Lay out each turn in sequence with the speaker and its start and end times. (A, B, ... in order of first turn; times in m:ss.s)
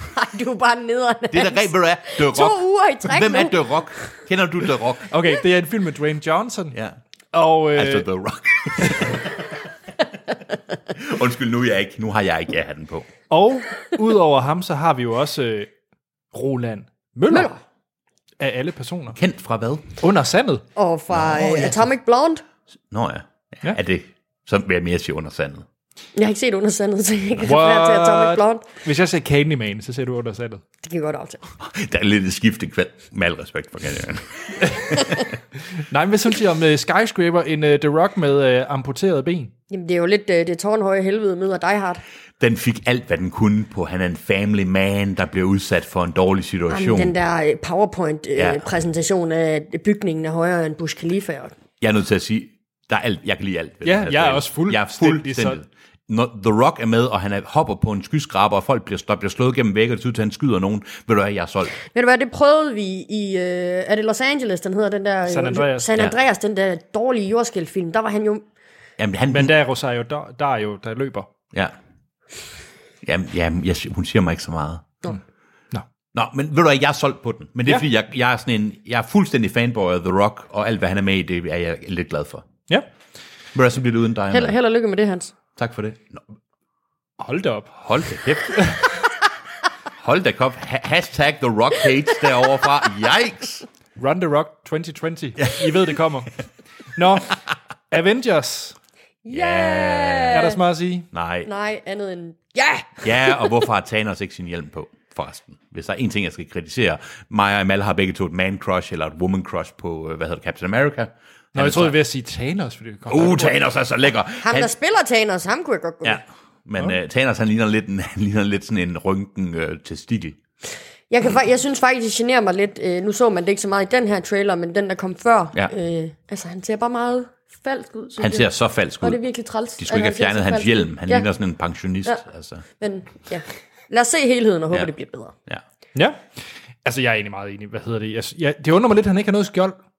0:00.1-0:03.6 A
0:01.3-0:05.1 B
0:05.1-0:06.8 C
0:06.7-0:07.0 B
0:07.3-0:08.1 C
0:07.7-0:09.4 B
0:10.9-0:13.1 B
0:13.3-0:15.7 C
0:16.3-0:17.5 C
0:17.3-0:17.6 A
0:18.4-0:19.2 C
0:19.1-0:20.0 B
0:20.0-0:20.6 C
0:20.8-0:22.4 A
0:21.1-0:21.8 B
0:22.9-0:25.6 B
0:26.2-0:28.6 A
0:27.4-0:30.6 C
0:30.8-0:31.4 A
0:31.6-0:35.2 B
0:34.6-0:35.0 C
0:35.9-0:39.5 C
0:39.7-0:42.0 A
0:42.4-0:47.1 B
0:46.7-0:51.5 A
0:48.4-0:48.6 B
0:51.8-1:01.7 B
0:53.8-0:55.6 C
1:01.9-1:08.4 A
1:05.3-1:05.9 C
1:09.0-1:09.5 B
1:09.3-1:11.3 C
1:13.0-1:14.9 B
1:16.1-1:22.5 B
1:23.5-1:24.6 B
1:24.3-1:25.3 A
1:25.6-1:26.2 B
1:27.2-1:27.8 C
1:27.8-1:29.0 B
1:28.5-1:28.8 C
1:30.0-1:33.6 B
1:34.0-1:36.4 C
1:36.9-1:38.8 C
1:39.2-1:40.6 A
1:39.3-1:40.6 B
1:40.3-1:41.1 C
1:41.1-1:41.5 B
1:41.4-1:43.4 A
1:43.0-1:52.0 B
1:51.5-1:53.6 C
1:53.1-1:54.7 B
1:54.4-1:56.2 A
1:56.0-2:00.4 B
2:01.1-2:08.5 A
2:08.2-2:09.2 B
2:09.0-2:11.3 A
2:09.8-2:12.6 B
2:12.8-2:15.3 A
2:15.9-2:16.2 C
2:16.8-2:19.8 C